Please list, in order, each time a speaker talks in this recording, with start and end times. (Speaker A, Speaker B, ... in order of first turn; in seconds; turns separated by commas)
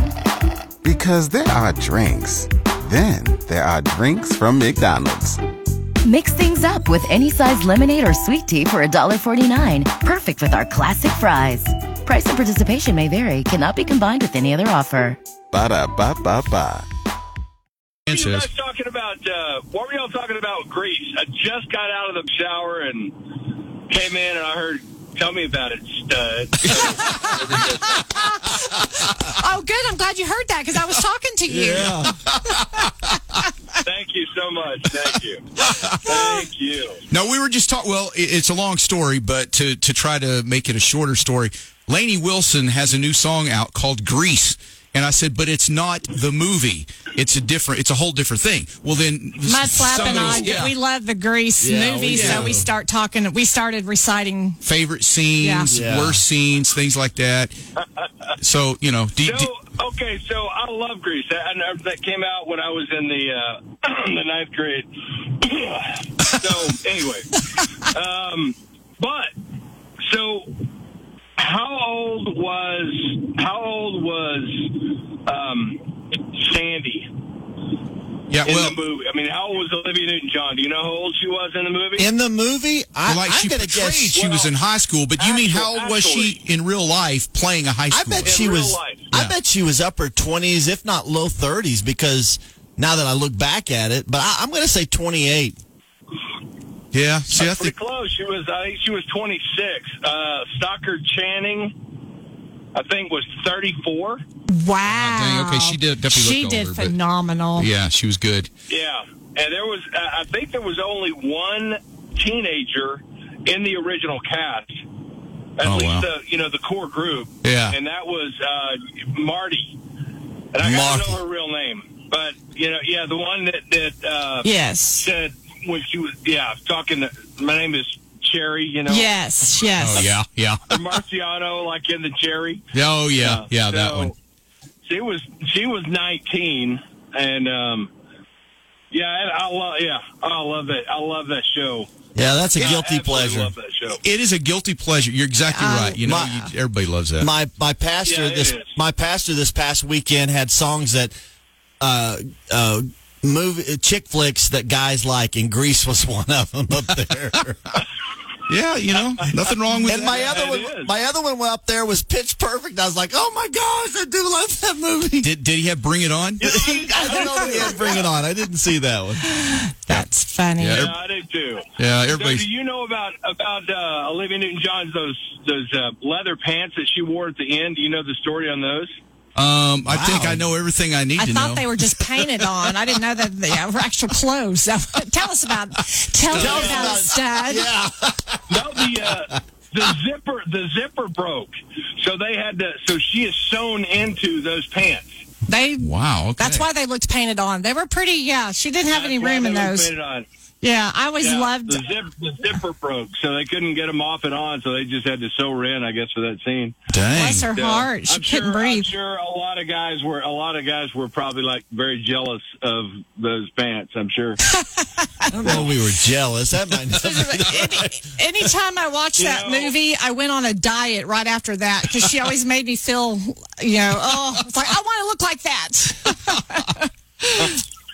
Speaker A: 0.8-5.4, Speaker B: 6.0-15.2, Speaker A: 15.5-16.9, Speaker C: 18.1-18.5, Speaker D: 18.1-23.2, Speaker D: 23.9-27.8, Speaker E: 26.8-32.1, Speaker F: 31.5-32.2, Speaker D: 33.8-35.4, Speaker C: 35.7-36.3, Speaker D: 36.0-37.0, Speaker C: 37.1-50.7, Speaker E: 49.4-54.6, Speaker D: 49.9-50.5, Speaker F: 51.6-52.6, Speaker C: 52.1-52.5, Speaker C: 54.6-57.5, Speaker E: 55.4-55.7, Speaker F: 55.7-56.2, Speaker D: 57.8-58.1, Speaker C: 58.4-59.5, Speaker D: 59.2-69.3, Speaker D: 70.0-70.5, Speaker D: 71.4-75.8, Speaker D: 76.3-77.1, Speaker C: 78.3-78.8, Speaker D: 78.4-82.1, Speaker F: 82.0-84.1, Speaker C: 83.0-88.3, Speaker D: 84.1-84.5, Speaker D: 85.2-86.3, Speaker F: 87.9-95.6, Speaker D: 88.2-89.1, Speaker C: 96.9-97.7, Speaker D: 97.3-101.7, Speaker D: 102.7-104.2, Speaker E: 104.5-107.7, Speaker C: 104.8-106.9, Speaker C: 107.6-108.5, Speaker D: 108.7-114.8, Speaker D: 115.6-119.8, Speaker C: 115.6-116.1, Speaker C: 117.4-117.8, Speaker D: 120.5-129.1, Speaker F: 120.6-121.2, Speaker E: 124.4-125.1, Speaker E: 128.8-130.1, Speaker C: 129.8-130.8, Speaker D: 130.7-134.1, Speaker C: 132.7-134.1, Speaker D: 134.8-137.9, Speaker D: 138.9-141.9, Speaker F: 142.1-143.5, Speaker D: 142.5-144.0, Speaker C: 143.9-147.3, Speaker E: 145.5-146.2, Speaker F: 146.0-146.4, Speaker F: 147.2-151.1, Speaker D: 148.1-148.7, Speaker F: 151.8-157.8, Speaker C: 158.5-160.3, Speaker F: 159.8-165.3, Speaker D: 159.9-160.9, Speaker C: 165.2-166.4, Speaker D: 166.4-168.1, Speaker F: 166.4-169.2, Speaker E: 169.3-170.9, Speaker C: 170.6-170.9, Speaker D: 170.7-178.9, Speaker C: 171.8-172.4, Speaker C: 179.3-181.7, Speaker F: 179.8-180.5, Speaker E: 181.2-187.7, Speaker D: 186.3-186.9, Speaker F: 186.3-189.2, Speaker D: 188.5-195.1, Speaker E: 195.5-199.9, Speaker C: 195.8-196.7, Speaker D: 198.9-200.2, Speaker E: 200.6-201.8, Speaker D: 201.2-206.7, Speaker C: 206.9-207.5, Speaker E: 207.1-208.9, Speaker D: 207.5-214.4, Speaker E: 214.5-215.7, Speaker F: 215.3-217.9, Speaker D: 215.4-215.7, Speaker E: 216.9-227.6, Speaker D: 219.2-219.7